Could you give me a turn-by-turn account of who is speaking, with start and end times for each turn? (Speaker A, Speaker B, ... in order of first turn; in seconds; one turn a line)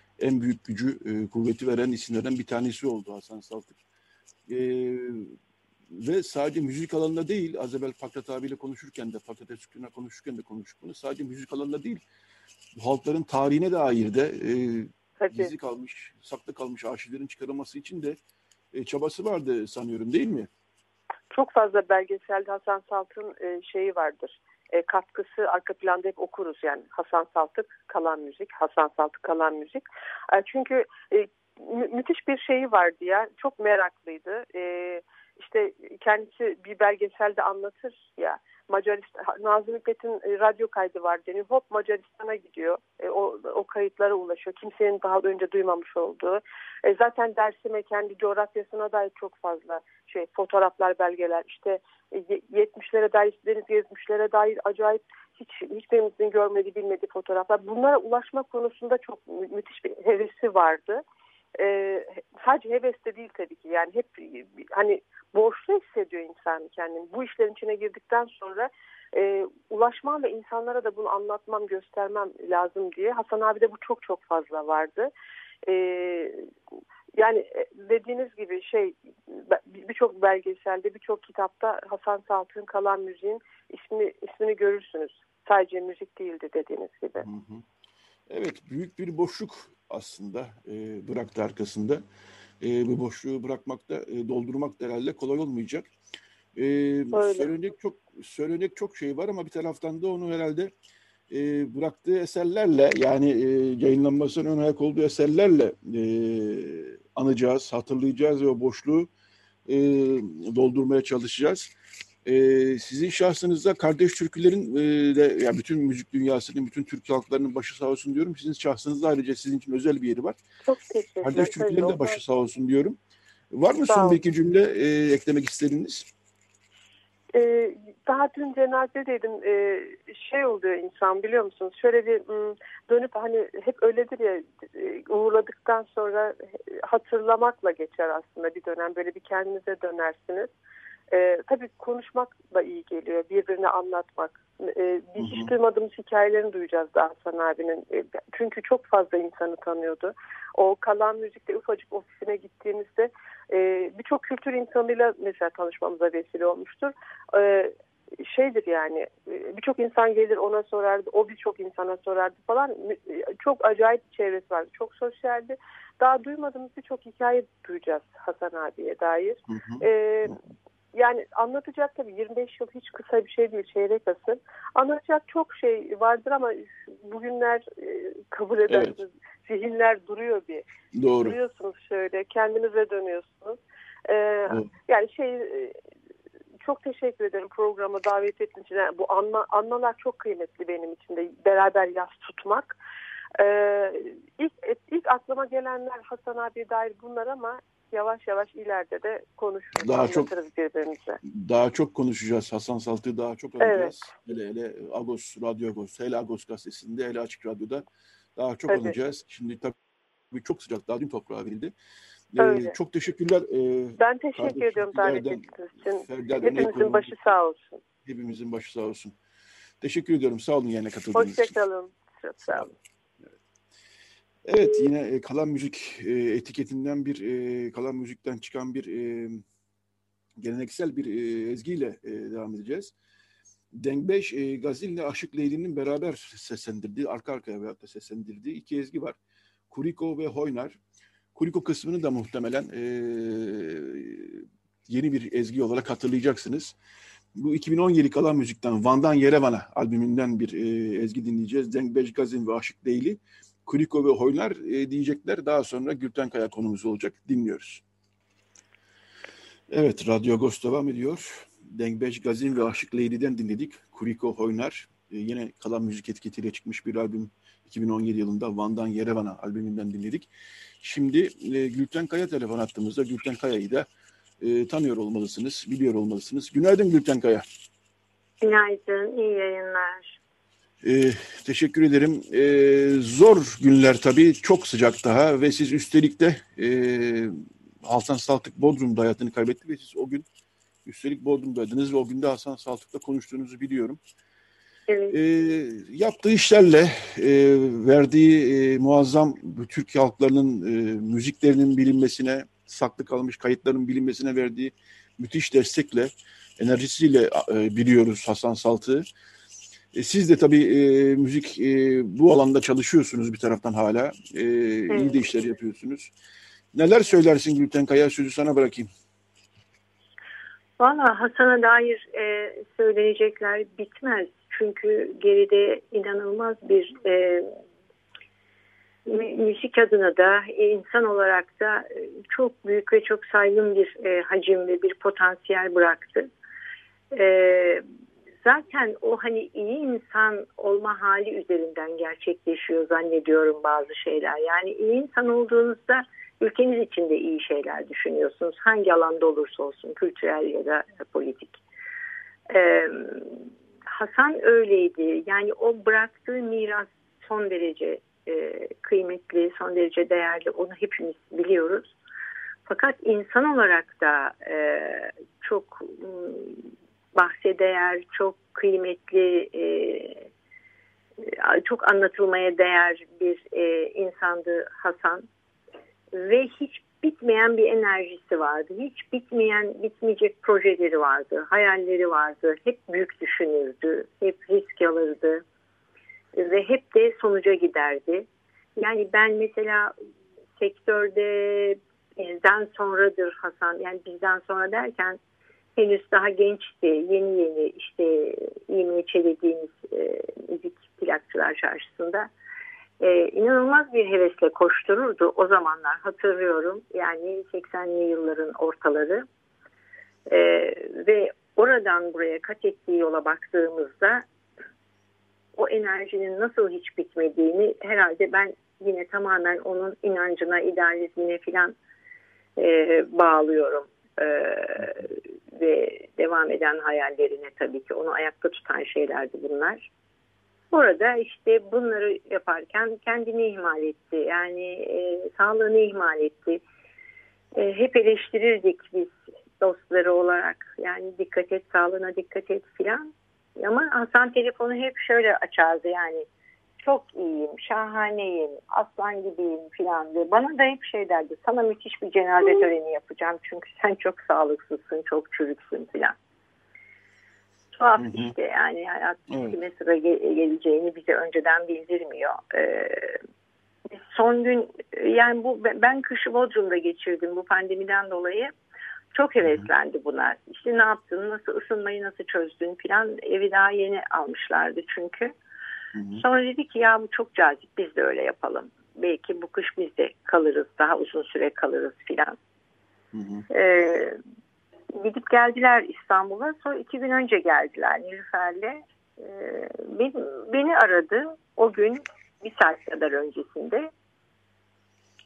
Speaker A: 0.2-3.8
Speaker A: 4.5-5.3
Speaker A: 5.9-12.0
Speaker A: 12.8-18.2
Speaker B: 15.2-15.5
Speaker A: 18.7-20.5
Speaker B: 21.3-61.0
Speaker B: 61.6-75.1
Speaker B: 75.7-76.5
Speaker B: 77.2-87.3
Speaker A: 87.2-87.6
Speaker A: 88.3-92.0
Speaker A: 92.6-95.9
Speaker A: 96.5-100.7
Speaker B: 97.1-97.5
Speaker A: 101.3-109.1
Speaker A: 109.7-111.7
Speaker A: 112.2-120.4
Speaker B: 120.7-122.2
Speaker A: 121.2-123.0
Speaker A: 123.5-126.1
Speaker B: 123.9-124.2
Speaker B: 127.3-140.5
Speaker B: 141.1-157.7
Speaker A: 145.2-145.5
Speaker B: 158.2-170.4
Speaker A: 169.5-170.4
Speaker B: 170.9-180.6
Speaker A: 178.7-179.0
Speaker A: 180.9-181.4
Speaker B: 181.2-185.7
Speaker B: 186.6-192.8
Speaker B: 193.4-201.2
Speaker A: 199.8-200.3
Speaker A: 201.2-207.8
Speaker B: 203.6-203.9
Speaker A: 208.3-209.8
Speaker B: 208.7-208.9
Speaker A: 210.3-211.7
Speaker A: 212.3-215.5
Speaker B: 212.4-212.7
Speaker B: 214.0-217.8
Speaker A: 216.0-217.2
Speaker A: 218.0-219.2
Speaker A: 219.8-221.5
Speaker B: 221.1-222.7
Speaker A: 222.4-222.7
Speaker A: 224.4-229.4
Speaker A: 230.4-232.9
Speaker A: 233.7-239.2
Speaker A: 239.7-240.8
Speaker A: 241.3-246.8
Speaker A: 247.3-257.8
Speaker A: 259.7-270.3
Speaker A: 270.8-273.9
Speaker A: 274.4-277.4
Speaker C: 278.4-280.2
Speaker A: 280.8-290.2
Speaker A: 290.8-294.0
Speaker C: 294.9-295.2
Speaker A: 295.1-309.1
Speaker A: 309.9-316.1
Speaker C: 314.9-315.2
Speaker A: 316.7-318.9
Speaker C: 320.8-327.5
Speaker C: 329.1-336.3
Speaker C: 337.1-337.8
Speaker C: 338.4-351.6
Speaker C: 352.5-361.9
Speaker C: 362.7-370.3
Speaker C: 371.2-375.3
Speaker C: 376.1-385.4
Speaker C: 386.3-389.9
Speaker C: 390.6-395.2
Speaker C: 395.8-402.3
Speaker C: 403.0-409.2
Speaker C: 410.3-414.2
Speaker C: 415.6-421.7
Speaker C: 422.6-429.9
Speaker C: 430.7-436.6
Speaker C: 437.5-446.3
Speaker C: 446.8-456.1
Speaker C: 457.8-463.2
Speaker A: 458.0-458.3
Speaker A: 459.3-459.6
Speaker C: 463.9-468.5
Speaker C: 469.1-475.3
Speaker A: 469.4-469.7
Speaker A: 475.9-476.2
Speaker C: 476.1-482.4
Speaker A: 483.1-483.4
Speaker C: 483.5-484.2
Speaker C: 485.0-493.9